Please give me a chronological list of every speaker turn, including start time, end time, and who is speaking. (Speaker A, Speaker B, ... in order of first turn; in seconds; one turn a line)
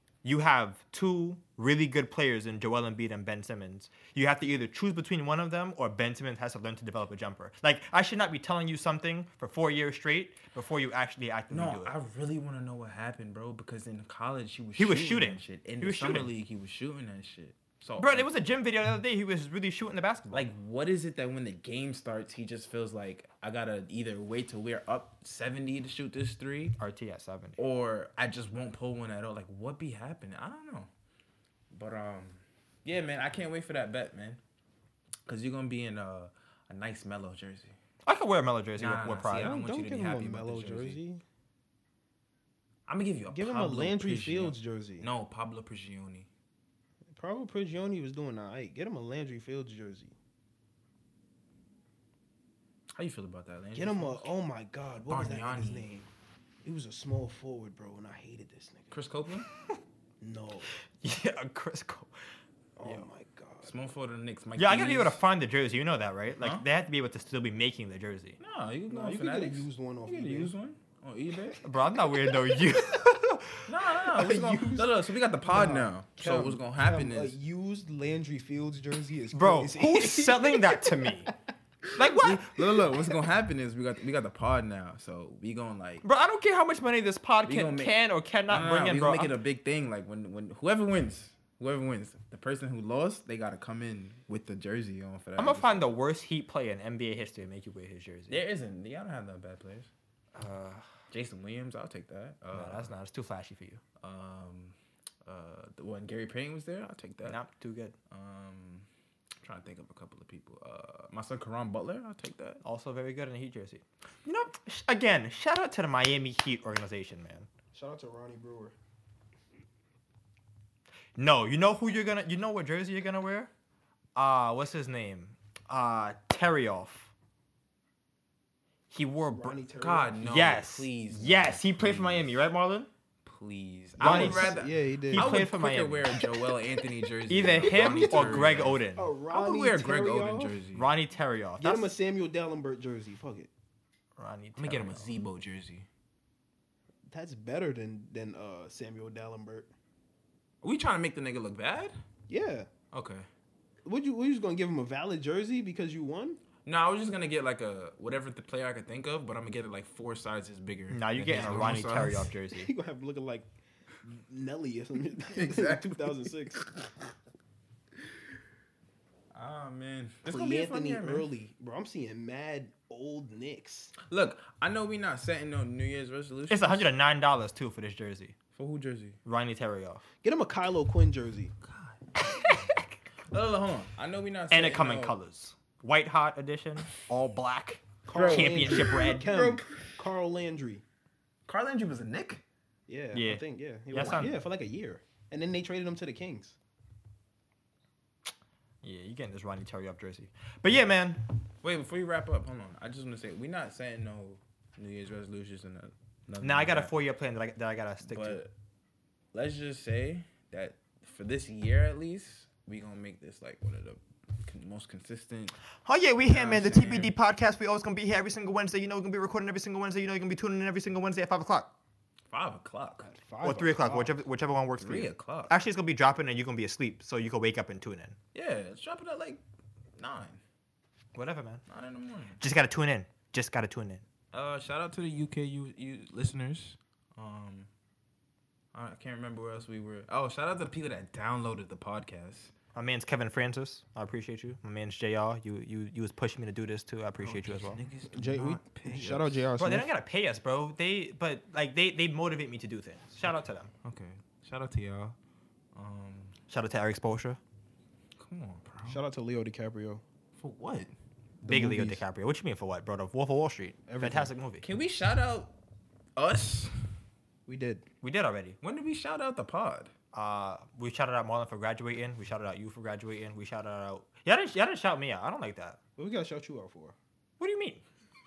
Speaker A: 0.2-11.9
Speaker B: 11.5-18.3
Speaker A: 14.8-16.3
Speaker A: 18.0-20.5
Speaker B: 20.3-26.8
Speaker A: 26.8-27.6
Speaker B: 27.6-30.9
Speaker B: 31.7-34.4
Speaker B: 35.3-37.8
Speaker A: 38.0-39.6
Speaker B: 38.8-41.0
Speaker C: 39.4-41.2
Speaker B: 42.9-46.3
Speaker C: 43.3-45.1
Speaker C: 47.1-50.1
Speaker B: 52.9-54.3
Speaker C: 53.8-56.1
Speaker B: 55.1-55.9
Speaker C: 56.6-58.9
Speaker B: 58.9-59.5
Speaker C: 60.2-60.7
Speaker A: 61.0-62.1
Speaker C: 62.8-63.7
Speaker B: 63.6-65.2
Speaker A: 64.6-68.4
Speaker B: 66.4-66.7
Speaker B: 68.4-71.6
Speaker C: 68.9-70.5
Speaker A: 71.6-73.7
Speaker B: 73.7-77.4
Speaker C: 74.2-74.9
Speaker C: 75.4-80.9
Speaker A: 79.3-81.3
Speaker A: 82.0-82.5
Speaker B: 82.0-86.0
Speaker A: 86.0-89.3
Speaker B: 87.4-95.9
Speaker A: 95.4-98.4
Speaker B: 98.3-99.9
Speaker A: 100.3-100.9
Speaker B: 101.1-102.9
Speaker A: 102.5-103.8
Speaker B: 104.0-107.4
Speaker A: 107.2-108.0
Speaker B: 108.1-108.9
Speaker B: 109.4-112.6
Speaker A: 112.6-117.5
Speaker C: 117.7-118.8
Speaker A: 121.2-123.5
Speaker A: 124.2-127.1
Speaker A: 128.9-129.6
Speaker C: 129.3-130.3
Speaker B: 129.8-132.4
Speaker A: 130.2-132.9
Speaker B: 133.2-140.9
Speaker A: 134.0-136.1
Speaker C: 134.0-135.4
Speaker A: 137.3-139.1
Speaker C: 137.7-140.6
Speaker A: 140.8-141.9
Speaker C: 141.6-143.5
Speaker A: 144.2-145.2
Speaker B: 144.6-145.9
Speaker C: 147.1-149.7
Speaker B: 150.6-151.9
Speaker C: 152.3-152.7
Speaker B: 152.9-153.3
Speaker C: 153.9-156.4
Speaker B: 156.7-162.3
Speaker A: 160.9-162.7
Speaker C: 162.5-163.5
Speaker C: 164.0-166.6
Speaker B: 165.3-166.7
Speaker B: 169.3-171.3
Speaker C: 170.3-173.9
Speaker B: 174.1-176.9
Speaker A: 176.5-178.4
Speaker B: 178.6-179.2
Speaker A: 179.2-180.1
Speaker C: 180.2-181.5
Speaker B: 181.6-182.7
Speaker B: 183.3-185.2
Speaker A: 184.5-189.2
Speaker C: 188.1-190.8
Speaker B: 188.1-189.9
Speaker B: 191.5-192.4
Speaker C: 192.9-196.6
Speaker A: 193.1-194.4
Speaker A: 198.8-201.2
Speaker B: 201.6-206.9
Speaker A: 206.4-208.4
Speaker B: 208.1-208.5
Speaker B: 209.3-215.6
Speaker A: 215.8-221.7
Speaker B: 216.3-217.1
Speaker B: 222.3-223.1
Speaker C: 223.0-224.2
Speaker A: 223.4-228.2
Speaker B: 224.8-225.6
Speaker B: 228.3-229.4
Speaker B: 230.0-230.4
Speaker A: 231.1-231.6
Speaker B: 231.7-232.4
Speaker A: 232.4-234.1
Speaker B: 234.3-237.7
Speaker B: 238.7-242.5
Speaker A: 242.8-247.8
Speaker B: 247.2-249.5
Speaker C: 248.1-249.9
Speaker A: 249.6-253.7
Speaker B: 253.8-255.2
Speaker B: 255.8-256.4
Speaker A: 256.5-257.4
Speaker B: 258.2-259.0
Speaker C: 258.8-260.0
Speaker B: 260.4-260.9
Speaker C: 261.4-262.0
Speaker A: 261.4-264.6
Speaker C: 263.9-264.3
Speaker B: 264.6-265.5
Speaker B: 266.2-266.9
Speaker C: 267.5-267.8
Speaker A: 268.0-268.6
Speaker B: 268.6-269.9
Speaker A: 270.1-275.8
Speaker C: 276.0-277.0
Speaker A: 277.4-277.8